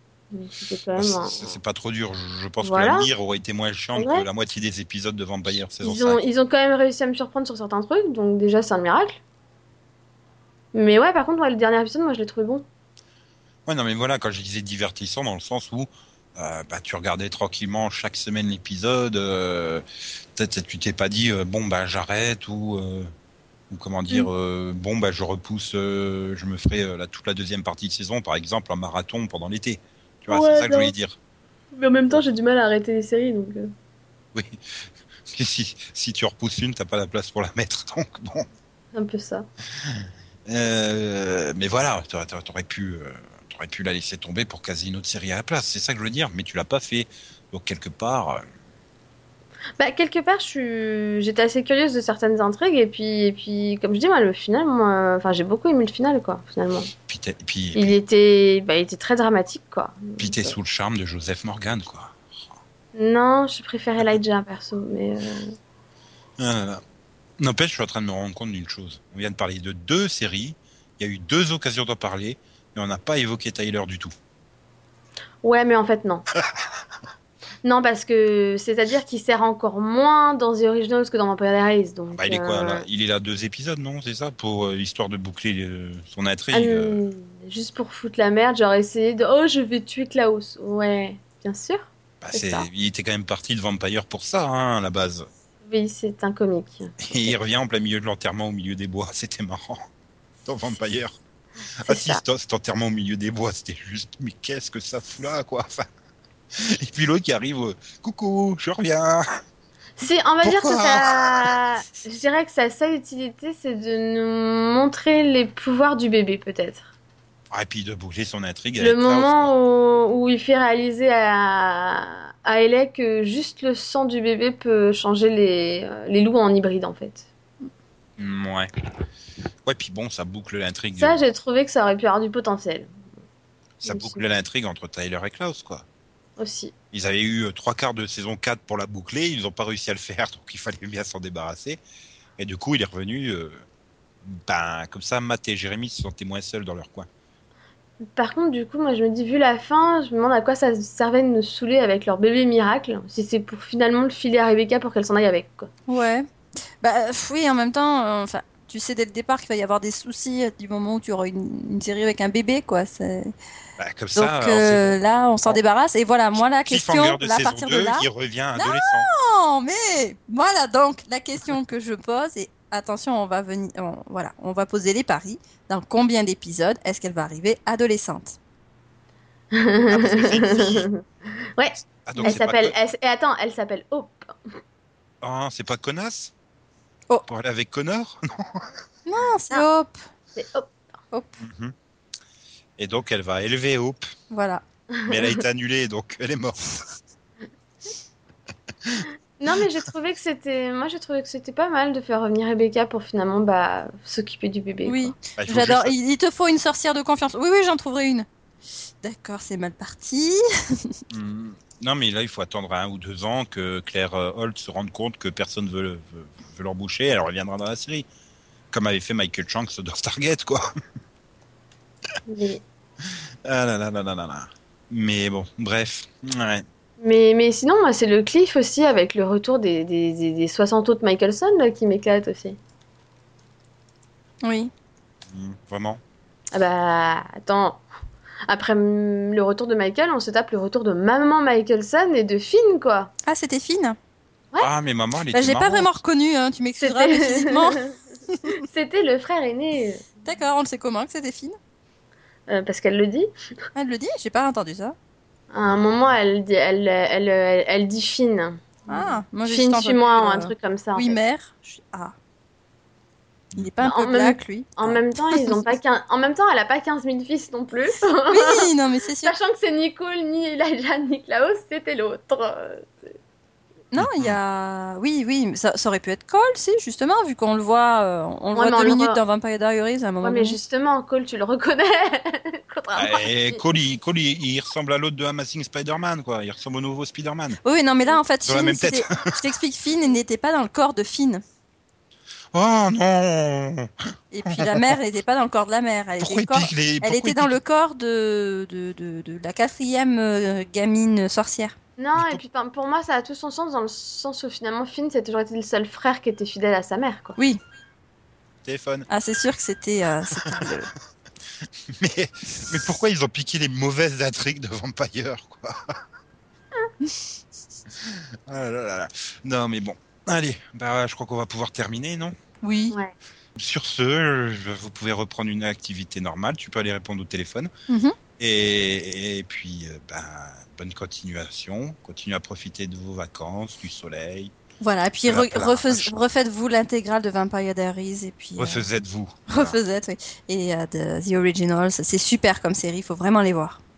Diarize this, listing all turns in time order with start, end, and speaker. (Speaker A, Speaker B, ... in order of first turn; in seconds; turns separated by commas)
Speaker A: 0.3-1.6, Speaker B: 1.0-6.2, Speaker A: 2.6-3.1, Speaker A: 4.0-4.2, Speaker A: 5.8-9.2, Speaker A: 10.7-12.6, Speaker B: 13.7-19.8, Speaker B: 20.3-23.1, Speaker B: 23.7-31.2, Speaker A: 30.3-30.9, Speaker A: 31.7-33.7, Speaker B: 34.3-38.5, Speaker A: 38.9-39.5, Speaker B: 39.8-48.4, Speaker A: 49.8-56.9, Speaker B: 57.0-57.9, Speaker A: 57.7-60.5, Speaker B: 60.2-62.4, Speaker A: 62.9-65.5, Speaker B: 66.4-66.8, Speaker B: 67.4-74.1, Speaker A: 75.4-76.2, Speaker A: 77.6-82.8, Speaker B: 82.1-87.0, Speaker A: 86.5-92.7, Speaker B: 92.2-95.3, Speaker A: 95.6-97.4, Speaker B: 97.0-99.8, Speaker B: 100.4-101.2, Speaker B: 101.8-105.9, Speaker A: 101.8-102.2, Speaker B: 106.5-109.4, Speaker A: 110.0-116.9, Speaker B: 110.4-111.5, Speaker B: 117.5-119.5, Speaker A: 118.8-127.3, Speaker B: 128.2-128.7, Speaker B: 129.6-131.2, Speaker A: 130.9-132.9, Speaker A: 133.8-134.2, Speaker B: 133.8-135.8, Speaker A: 136.4-136.7, Speaker B: 136.9-141.8, Speaker B: 142.4-143.6, Speaker B: 144.2-147.1, Speaker A: 148.1-155.7, Speaker C: 155.9-156.3, Speaker C: 156.8-163.3, Speaker B: 163.8-165.6, Speaker C: 164.1-178.4, Speaker B: 166.7-169.1, Speaker A: 179.5-181.0, Speaker B: 179.9-180.9, Speaker A: 181.6-184.5, Speaker B: 182.0-182.7, Speaker B: 185.2-186.3, Speaker B: 187.3-188.7, Speaker C: 189.1-190.0, Speaker A: 190.3-190.7, Speaker B: 191.4-191.7, Speaker B: 192.8-194.1, Speaker C: 194.3-194.6, Speaker A: 194.9-195.3, Speaker B: 195.1-196.9, Speaker A: 199.4-205.1, Speaker C: 204.8-208.2, Speaker B: 205.3-205.9, Speaker C: 209.0-211.0, Speaker B: 211.1-218.1, Speaker B: 218.7-220.7, Speaker A: 222.3-222.6, Speaker B: 223.0-226.6, Speaker A: 227.0-232.6, Speaker C: 234.4-234.7, Speaker B: 235.3-236.0, Speaker A: 236.5-237.8, Speaker A: 238.5-243.1, Speaker C: 243.2-244.0, Speaker B: 244.6-245.9, Speaker C: 245.3-248.5, Speaker A: 246.8-250.1, Speaker C: 250.2-251.6, Speaker A: 252.5-253.3, Speaker C: 253.7-254.9, Speaker A: 255.5-261.1, Speaker C: 258.9-262.1, Speaker B: 263.5-263.9, Speaker C: 263.5-265.7, Speaker A: 263.8-268.7, Speaker C: 268.3-269.3, Speaker A: 269.2-273.1, Speaker C: 273.9-280.6, Speaker B: 274.0-274.4, Speaker A: 278.5-279.2, Speaker A: 280.2-283.6, Speaker B: 282.9-287.6, Speaker C: 287.6-291.4, Speaker B: 288.5-289.5, Speaker B: 292.5-293.9, Speaker C: 294.3-301.7, Speaker B: 294.4-295.0, Speaker B: 296.2-297.6, Speaker A: 302.0-307.4, Speaker B: 302.2-302.4, Speaker B: 308.6-309.1, Speaker C: 309.1-310.9, Speaker B: 310.4-310.7, Speaker B: 311.9-315.9, Speaker B: 317.9-322.4, Speaker C: 322.6-322.9, Speaker B: 323.6-327.7, Speaker C: 327.9-328.1, Speaker B: 328.4-334.5, Speaker C: 334.8-338.9, Speaker B: 335.2-336.2, Speaker B: 338.6-339.8, Speaker C: 339.5-343.8